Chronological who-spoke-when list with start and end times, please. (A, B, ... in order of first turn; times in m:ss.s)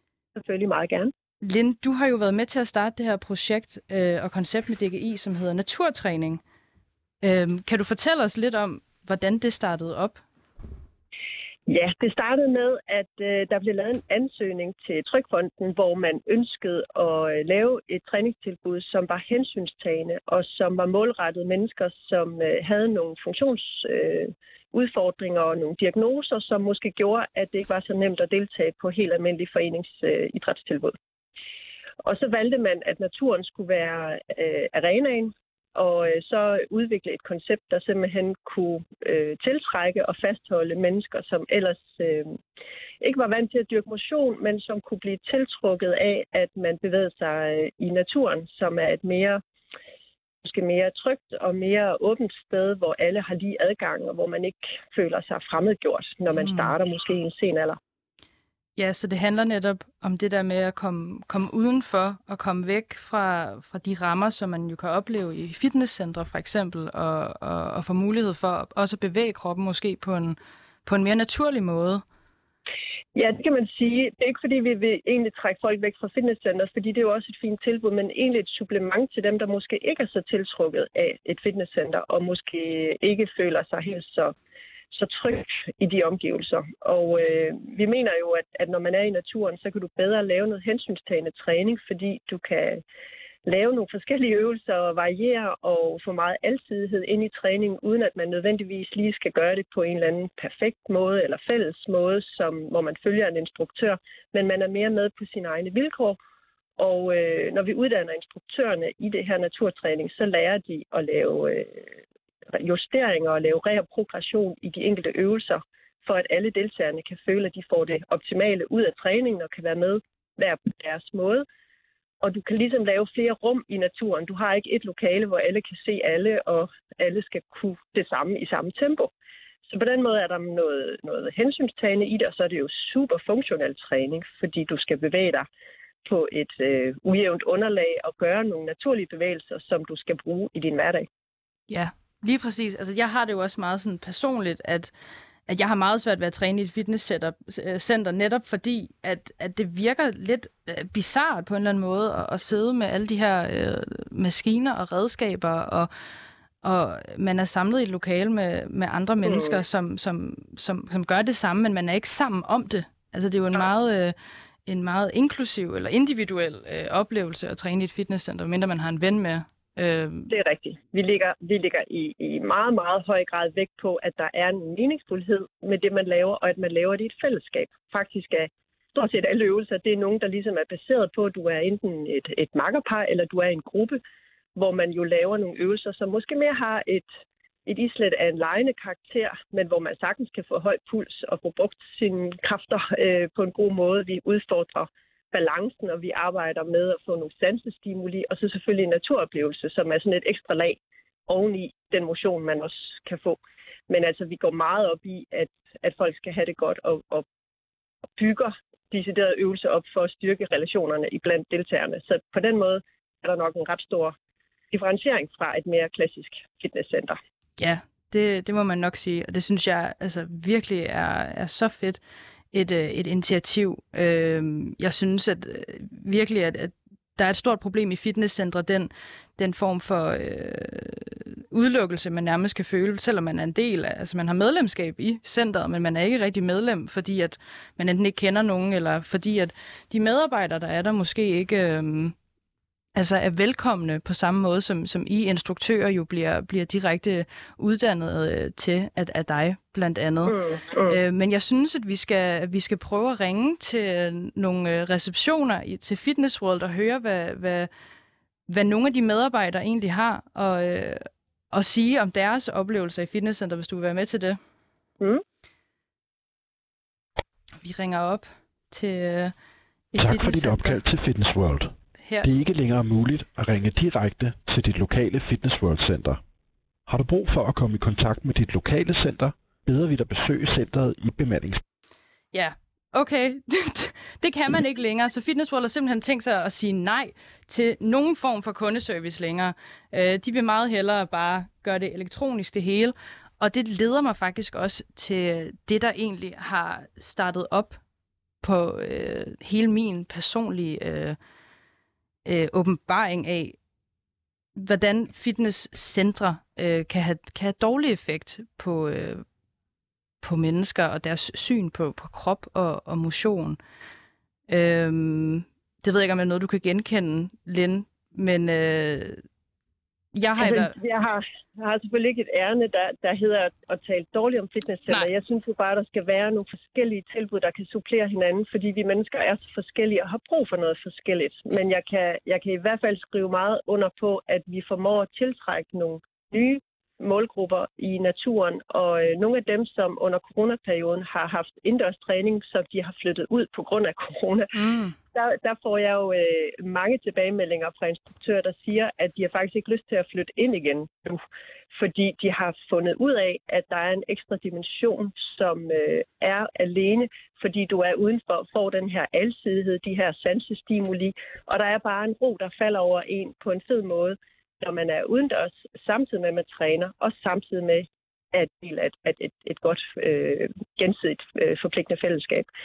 0:00.4-0:01.1 A
0:01.4-0:06.4 B
0:07.2-0:10.2 B
0:11.7-0:31.0 A
0:32.0-0:42.4 A
0:43.0-0:49.4 A
0:50.4-0:57.8 A
0:56.3-0:56.8 B
0:58.8-1:12.0 B
1:13.2-1:24.4 A
1:24.9-1:32.8 A
1:33.4-1:46.2 A
1:46.8-1:51.9 A
1:52.5-2:01.5 A
2:02.2-2:09.1 A
2:09.7-2:15.5 A
2:16.0-2:21.1 A
2:21.7-2:24.9 B
2:25.5-2:35.9 B
2:36.6-2:50.3 B
2:39.2-2:39.6 A
2:50.3-3:04.0 A
3:04.6-3:07.1 A
3:07.7-3:27.3 A
3:28.2-3:34.1 A
3:34.7-3:37.2 A
3:37.6-3:42.0 B
3:42.5-4:02.2 B
4:03.0-4:10.4 B
4:10.3-4:11.0 A
4:10.9-4:17.7 B
4:18.5-4:24.4 B
4:27.6-4:29.3 B
4:29.9-4:30.8 B
4:30.0-4:36.2 C
4:32.0-4:32.3 B
4:36.9-4:41.6 C
4:42.3-4:57.8 B
4:58.4-5:01.2 B
5:02.3-5:03.6 B
5:04.6-5:09.2 B
5:10.2-5:13.6 B
5:14.5-5:19.2 B
5:20.2-5:20.8 B
5:20.4-5:44.5 A
5:44.5-5:45.0 B
5:45.1-5:51.2 A
5:51.7-6:12.5 A